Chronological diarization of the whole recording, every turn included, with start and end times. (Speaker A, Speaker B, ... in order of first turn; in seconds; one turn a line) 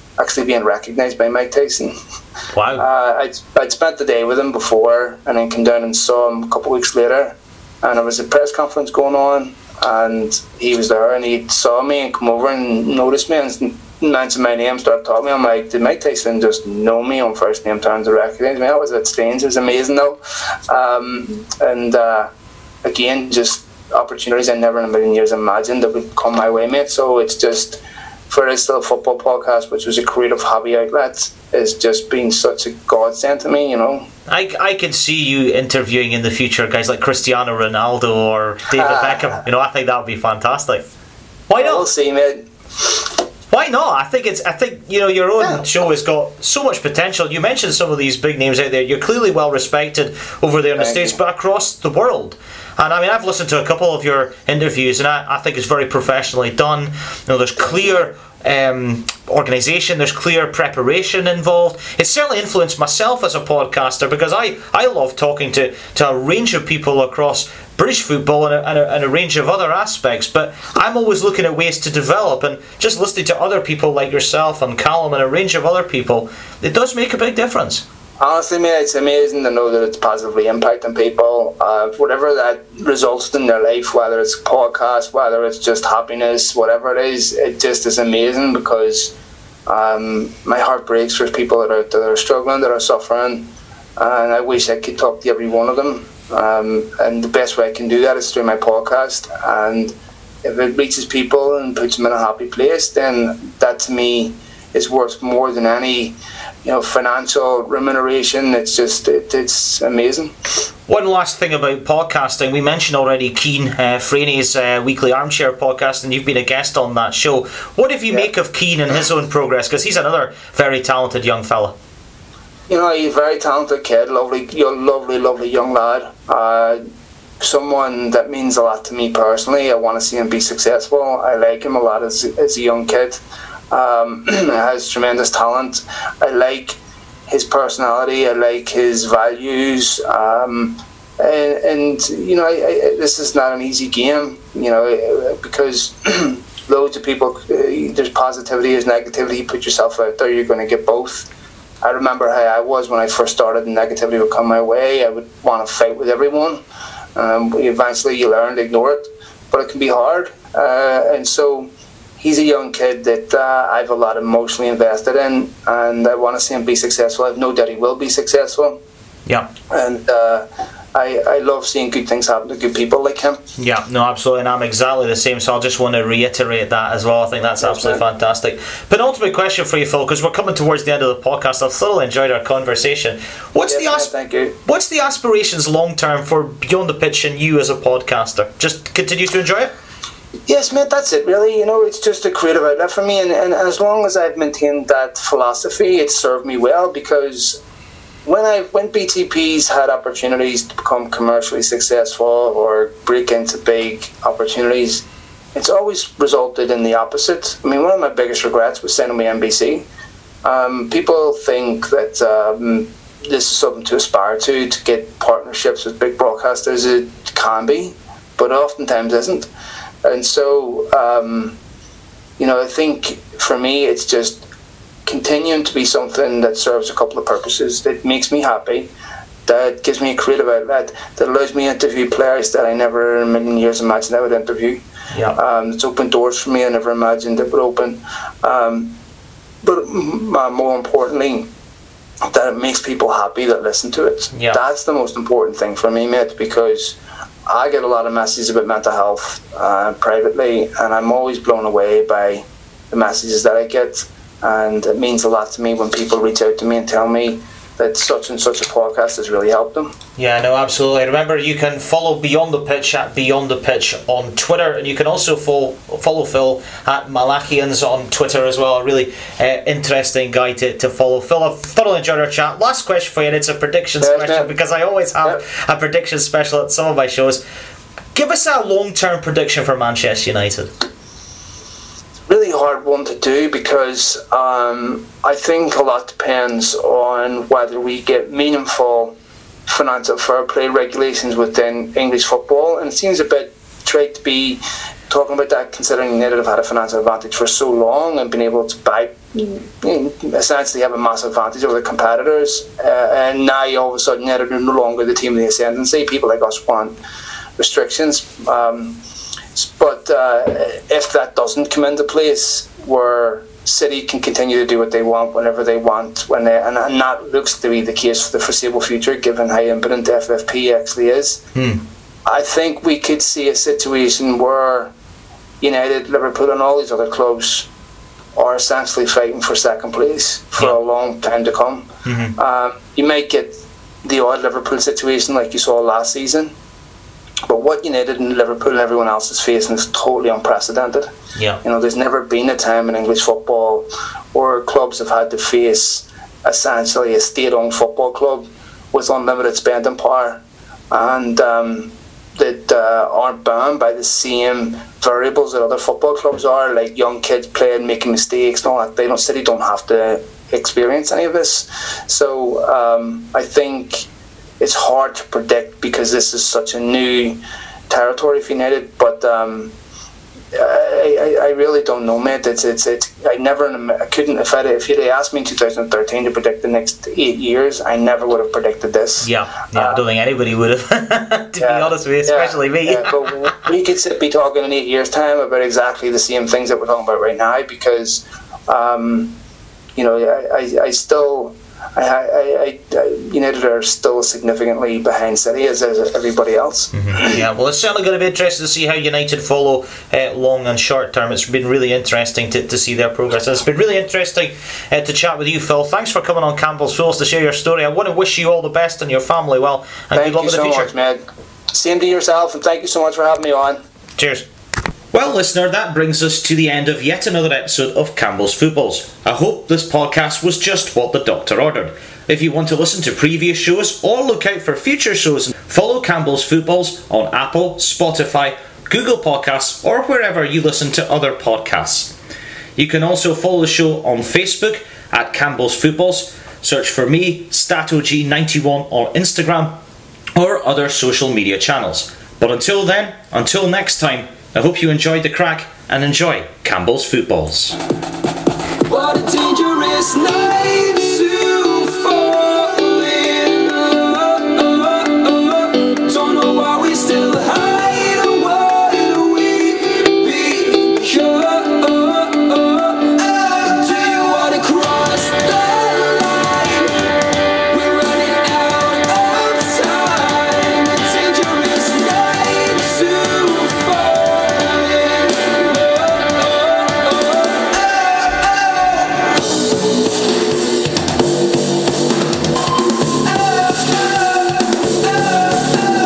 Speaker A: 0.2-1.9
Speaker B: 2.5-2.8
Speaker A: 2.7-22.3
Speaker A: 22.8-34.1
Speaker B: 34.3-40.8
Speaker A: 38.7-39.4
Speaker B: 41.5-41.9
Speaker A: 41.6-43.1
Speaker B: 43.5-77.8
Speaker A: 50.8-51.2
Speaker A: 78.2-89.1
Speaker A: 89.7-110.3
Speaker B: 110.9-121.7
Speaker A: 122.7-126.8
Speaker A: 127.4-151.3
Speaker A: 151.8-156.6
Speaker A: 157.1-168.8
Speaker A: 169.7-173.4
Speaker B: 173.6-184.1
Speaker A: 177.6-178.0
Speaker A: 183.6-184.6
Speaker B: 184.6-189.7
Speaker A: 190.5-197.6
Speaker A: 198.2-209.9
Speaker A: 210.4-219.5
Speaker A: 220.0-221.6
Speaker A: 222.4-224.4
Speaker A: 225.1-228.9
Speaker A: 229.4-234.8
Speaker B: 235.1-235.4
Speaker A: 235.3-238.9
Speaker A: 239.6-241.5
Speaker A: 242.2-259.9
Speaker B: 260.2-277.4
Speaker A: 274.0-274.5
Speaker B: 278.1-280.7
Speaker A: 282.3-289.1
Speaker A: 289.7-307.0
Speaker A: 307.6-309.0
Speaker A: 309.5-321.4
Speaker B: 321.5-321.8
Speaker A: 322.2-324.9
Speaker A: 325.6-327.7
Speaker A: 328.4-336.5
Speaker B: 332.0-332.4
Speaker A: 337.5-341.1
Speaker A: 341.6-364.1
Speaker A: 364.6-369.7
Speaker A: 370.5-380.0
Speaker B: 379.2-383.5
Speaker A: 381.6-389.4
Speaker A: 389.9-397.4
Speaker B: 396.9-410.9
Speaker A: 410.1-411.2
Speaker A: 411.7-413.8
Speaker B: 414.2-414.4
Speaker B: 415.1-432.1
Speaker B: 432.8-439.8
Speaker B: 440.3-447.8
Speaker C: 448.9-467.1
Speaker C: 467.7-479.0
Speaker C: 483.5-484.1